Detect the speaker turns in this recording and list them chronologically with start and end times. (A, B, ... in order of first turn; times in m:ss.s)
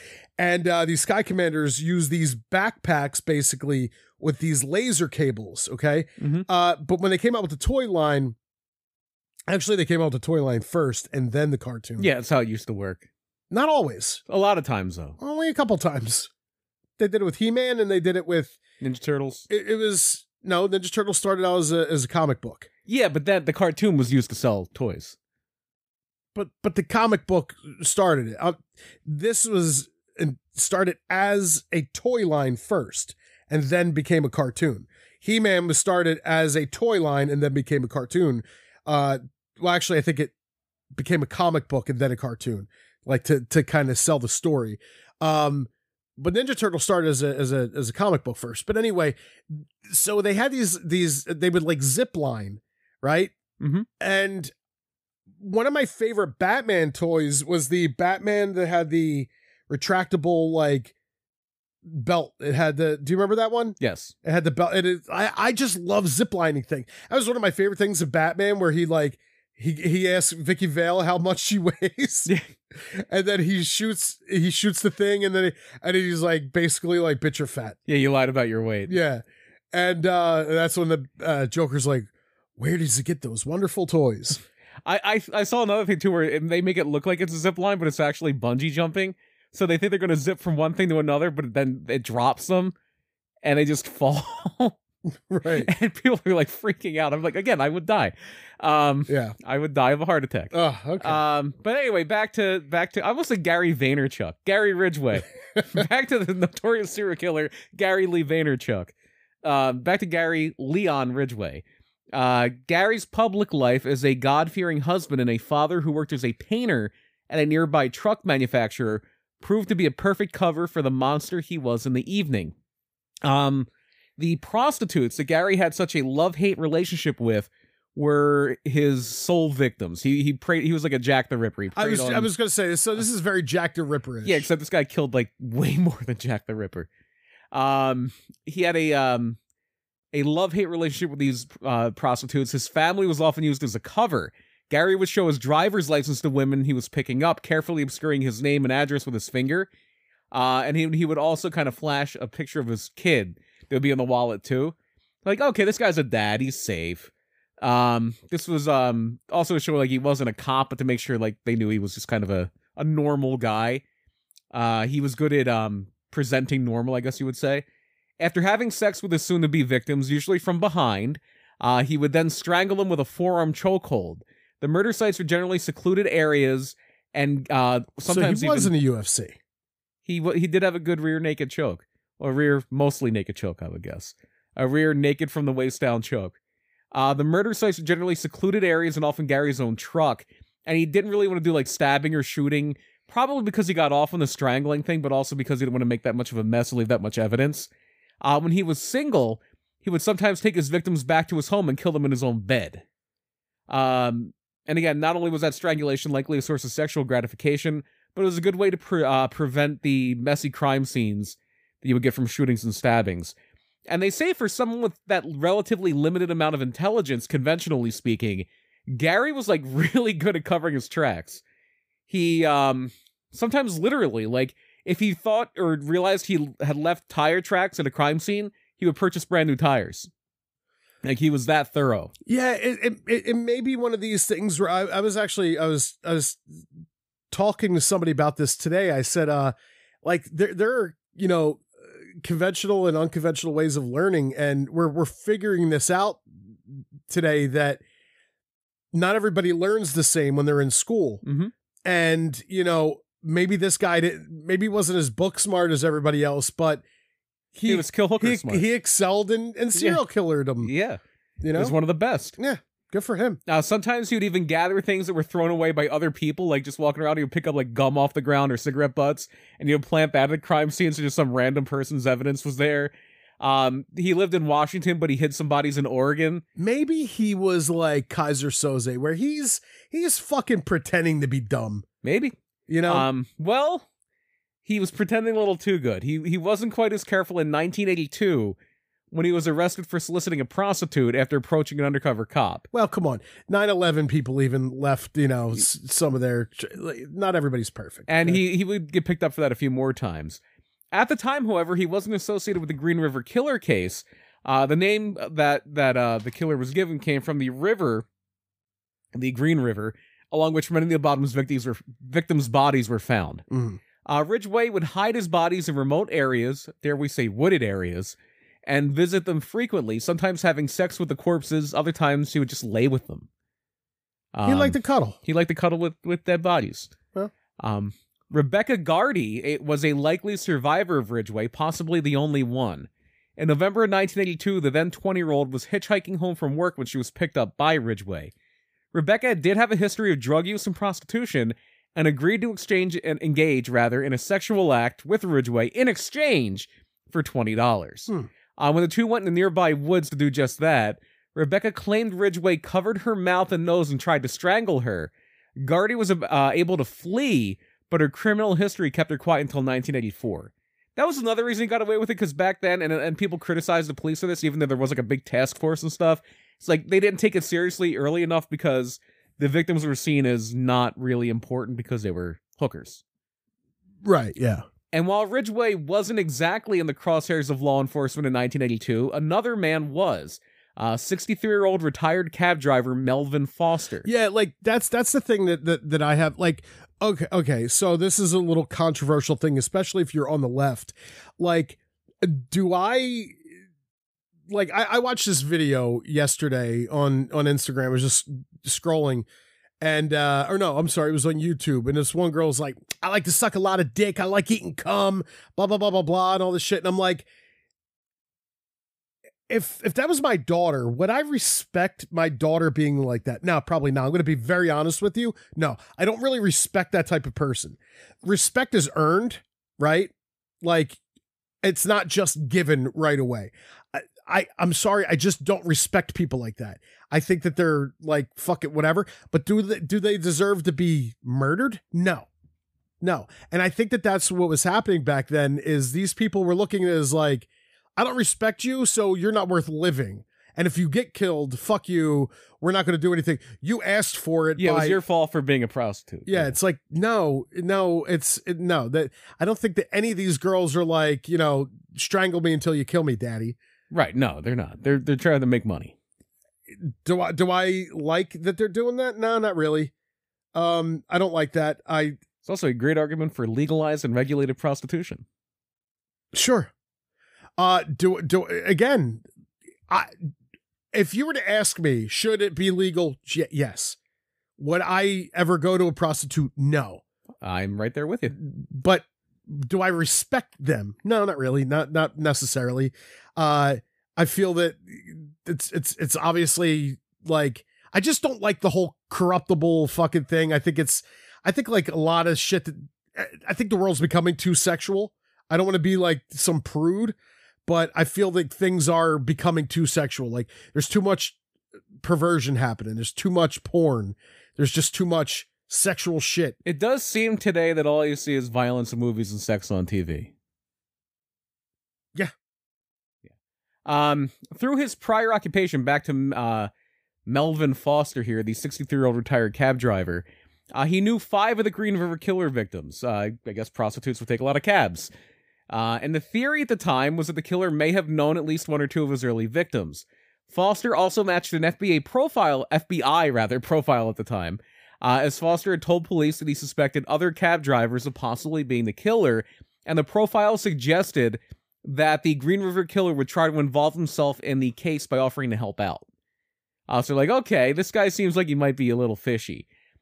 0:00.4-0:08.4 A
0:06.2-0:06.5 B
0:09.5-0:12.1 A
0:12.0-0:13.1 B
0:13.5-0:14.2 A
0:14.3-0:15.2 B
0:15.2-0:16.3 A
0:17.0-0:18.6 A
0:18.8-0:19.5 B
0:19.5-0:22.7 A
0:22.9-0:25.2 B
0:26.4-0:40.3 A
0:41.0-0:53.3 A
0:53.6-0:53.9 B
0:54.0-0:54.5 A
0:55.4-1:00.9 A
1:01.8-1:17.8 A
1:03.8-1:04.1 B
1:17.9-1:19.0 B
1:18.9-1:24.4 A
1:24.8-1:32.7 B
1:33.4-1:34.8 B
1:35.3-1:35.7 A
1:35.5-1:48.9 B
1:39.1-1:39.4 A
1:40.5-1:41.2 A
1:49.4-2:02.5 B
2:03.2-2:12.3 B
2:11.8-2:14.5 A
2:14.2-2:16.9 B
2:17.5-2:19.4 B
2:20.1-2:29.7 B
2:30.3-2:43.8 B
2:44.5-2:47.6 B
2:48.2-2:58.7 B
2:58.1-2:59.4 A
3:00.0-3:06.4 B
3:06.9-3:17.7 B
3:18.2-3:22.8 B
3:23.7-3:33.3 B
3:33.9-3:41.4 B
3:42.1-3:50.1 B
3:51.0-3:52.1 B
3:52.3-3:56.6 A
3:57.3-4:07.8 A
4:08.9-4:11.2 A
4:11.2-4:11.5 B
4:11.8-4:16.8 A
4:17.5-4:20.7 A
4:17.7-4:18.7 B
4:19.8-4:20.0 B
4:20.6-4:21.0 B
4:21.4-4:21.8 A
4:21.5-4:22.4 B
4:22.4-4:23.4 A
4:23.5-4:36.4 B
4:36.6-4:41.8 A
4:42.0-4:43.9 B
4:42.7-4:43.1 A
4:44.6-4:48.6 B
4:49.1-4:52.7 B
4:52.7-4:58.4 A
4:58.1-5:00.4 B
5:00.9-5:08.1 B
5:09.1-5:13.5 B
5:13.5-5:13.8 A
5:14.0-5:23.3 B
5:24.3-5:26.9 B
5:24.4-5:25.2 A
5:27.6-5:38.3 B
5:38.9-6:13.0 B
6:14.0-6:14.6 A
6:14.9-6:24.1 B
6:24.0-6:33.4 A
6:34.5-6:39.3 A
6:39.8-6:47.3 A
6:49.5-7:01.0 A
7:01.6-7:12.3 A
7:13.0-7:25.0 A
7:24.6-7:26.6 B
7:26.3-7:33.6 A
7:33.9-7:36.0 B
7:36.8-7:39.9 A
7:40.5-7:42.2 A
7:42.4-7:45.2 B
7:46.3-7:46.7 A
7:47.6-7:49.2 A
7:49.9-7:50.2 A
7:50.9-7:54.0 A
7:54.6-7:57.0 A
7:57.4-7:58.4 B
7:58.4-8:17.2 A
8:17.7-8:21.4 A
8:22.0-8:26.6 A
8:26.6-8:30.3 B
8:33.9-8:36.7 B
8:37.3-8:45.1 B
8:45.7-9:06.0 B
9:06.9-9:09.7 B